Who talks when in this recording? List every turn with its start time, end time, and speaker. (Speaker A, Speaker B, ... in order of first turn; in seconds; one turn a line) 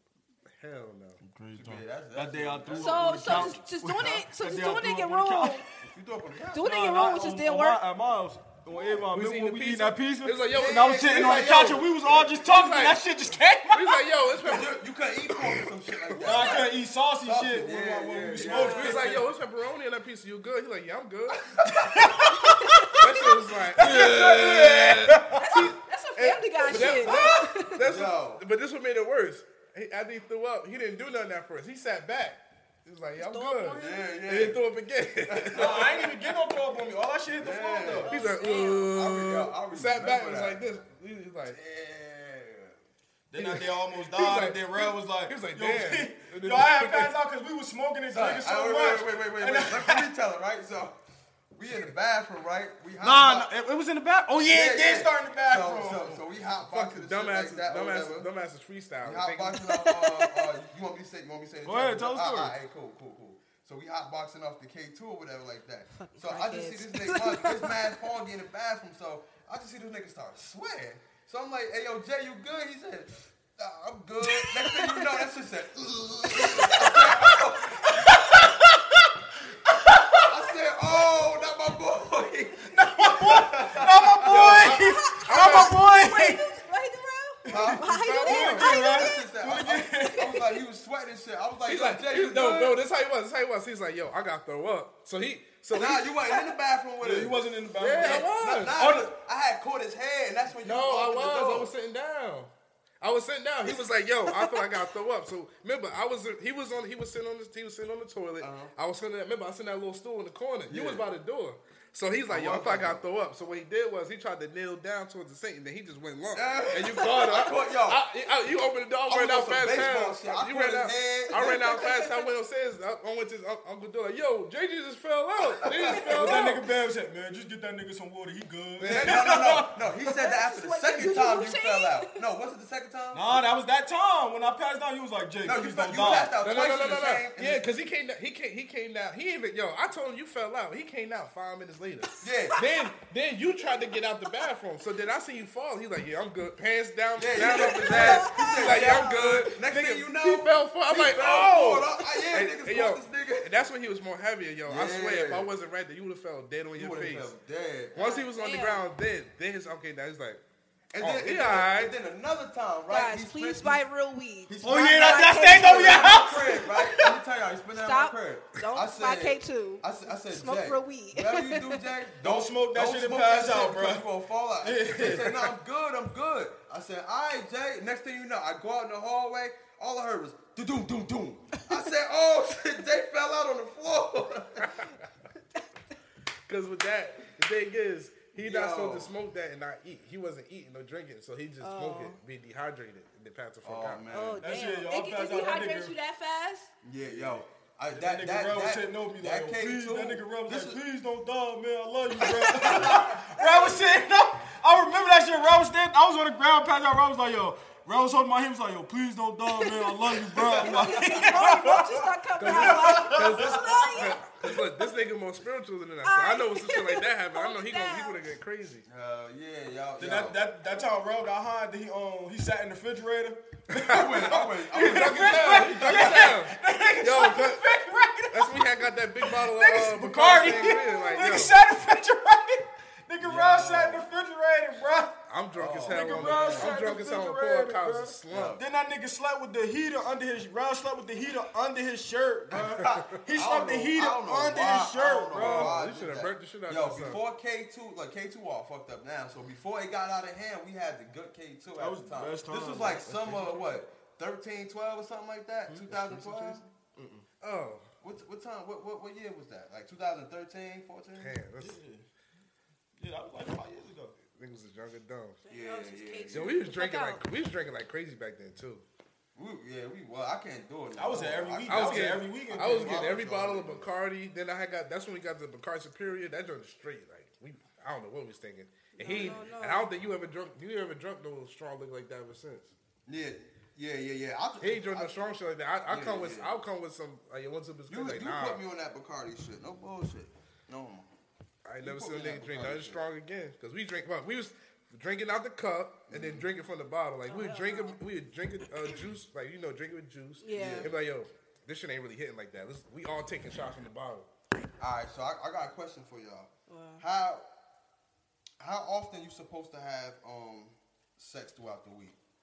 Speaker A: 0.5-1.2
Speaker B: 1.2-5.7
Speaker C: 1.5-3.6
Speaker D: 2.7-5.6
Speaker C: 5.8-6.7
Speaker D: 6.5-7.8
Speaker B: 6.6-14.2
Speaker C: 8.8-9.1
Speaker A: 9.1-13.2
Speaker C: 10.5-11.9
Speaker A: 13.7-14.8
Speaker C: 14.4-19.2
Speaker B: 16.2-19.3
Speaker A: 16.2-16.6
Speaker D: 18.4-19.0
Speaker A: 18.6-21.5
Speaker C: 21.5-22.1
Speaker B: 21.6-23.2
Speaker D: 22.4-23.0
Speaker A: 23.0-36.1
Speaker B: 23.8-25.5
Speaker C: 23.8-25.0
Speaker D: 25.4-27.8
Speaker C: 26.7-28.4
Speaker D: 33.2-34.1
Speaker C: 33.7-34.6
Speaker C: 35.3-36.1
Speaker B: 35.5-38.1
Speaker C: 37.3-38.3
Speaker D: 38.0-38.9
Speaker A: 38.1-41.6
Speaker C: 38.9-40.6
Speaker C: 41.5-42.8
Speaker B: 43.3-50.1
Speaker A: 43.4-47.1
Speaker C: 48.1-51.0
Speaker C: 51.5-53.5
Speaker B: 53.0-56.2
Speaker C: 54.4-58.3
Speaker A: 56.6-59.6
Speaker C: 59.0-78.3
Speaker D: 59.6-60.5
Speaker B: 61.6-62.5
Speaker D: 65.9-67.9
Speaker D: 74.4-75.1
Speaker D: 76.4-76.9
Speaker B: 77.9-80.2
Speaker C: 80.2-84.2
Speaker B: 82.6-86.4
Speaker D: 84.2-89.3
Speaker A: 84.2-85.8
Speaker B: 87.5-90.5
Speaker C: 87.5-92.8
Speaker A: 87.7-88.7
Speaker D: 90.2-90.5
Speaker A: 91.7-96.1
Speaker C: 95.7-97.4
Speaker B: 97.0-99.1
Speaker A: 97.8-98.8
Speaker C: 98.0-101.7
Speaker A: 100.6-126.6
Speaker D: 104.3-104.6
Speaker C: 108.4-108.7
Speaker C: 110.7-111.1
Speaker C: 112.3-113.0
Speaker C: 116.3-118.0
Speaker C: 119.1-121.9
Speaker D: 121.3-122.2
Speaker C: 125.6-126.3
Speaker D: 125.9-126.4
Speaker B: 126.2-130.1
Speaker A: 128.8-129.4
Speaker C: 128.8-133.5
Speaker D: 130.1-132.2
Speaker B: 133.1-136.3
Speaker C: 135.4-137.6
Speaker A: 136.4-157.3
Speaker C: 142.2-142.6
Speaker C: 147.2-153.5
Speaker D: 147.4-149.3
Speaker C: 154.7-155.5
Speaker C: 156.8-158.0
Speaker A: 157.9-160.4
Speaker D: 157.9-158.8
Speaker C: 160.9-163.8
Speaker A: 161.0-161.9
Speaker D: 162.9-166.2
Speaker C: 164.5-184.9
Speaker B: 164.6-167.2
Speaker D: 167.8-171.8
Speaker B: 172.2-174.1
Speaker B: 174.6-175.6
Speaker A: 184.6-185.1
Speaker A: 186.5-194.0
Speaker C: 188.4-189.1
Speaker D: 191.6-192.2
Speaker C: 193.6-194.4
Speaker D: 194.1-196.7
Speaker B: 194.4-195.9
Speaker C: 196.8-200.8
Speaker B: 197.0-214.0
Speaker D: 202.3-203.8
Speaker C: 202.6-203.2
Speaker D: 209.6-214.9
Speaker A: 212.4-218.8
Speaker D: 216.0-218.2
Speaker C: 218.9-220.5
Speaker B: 220.0-235.2
Speaker A: 223.7-227.7
Speaker C: 223.8-226.3
Speaker A: 228.3-231.6
Speaker C: 233.2-234.1
Speaker A: 235.3-238.6
Speaker C: 235.5-236.8
Speaker B: 235.9-245.8
Speaker C: 238.3-238.6
Speaker C: 242.5-256.6
Speaker A: 245.3-247.2
Speaker B: 251.8-253.5
Speaker A: 253.1-253.4
Speaker A: 255.7-257.9
Speaker C: 258.0-261.4
Speaker A: 261.2-261.8
Speaker B: 261.6-262.1
Speaker B: 263.0-264.2
Speaker A: 264.3-265.4
Speaker D: 265.4-267.2
Speaker C: 265.5-266.6
Speaker A: 266.3-268.8
Speaker C: 269.4-273.9
Speaker B: 270.9-273.2
Speaker A: 271.7-282.7
Speaker D: 279.0-279.9
Speaker C: 283.1-285.3
Speaker A: 284.6-288.6
Speaker C: 285.9-286.5
Speaker C: 287.9-291.1
Speaker A: 291.6-304.3
Speaker C: 291.8-293.0
Speaker C: 296.1-296.5
Speaker D: 297.3-298.0
Speaker D: 300.4-300.9
Speaker C: 300.5-300.9
Speaker C: 304.8-307.4
Speaker D: 306.7-307.0
Speaker C: 308.6-312.2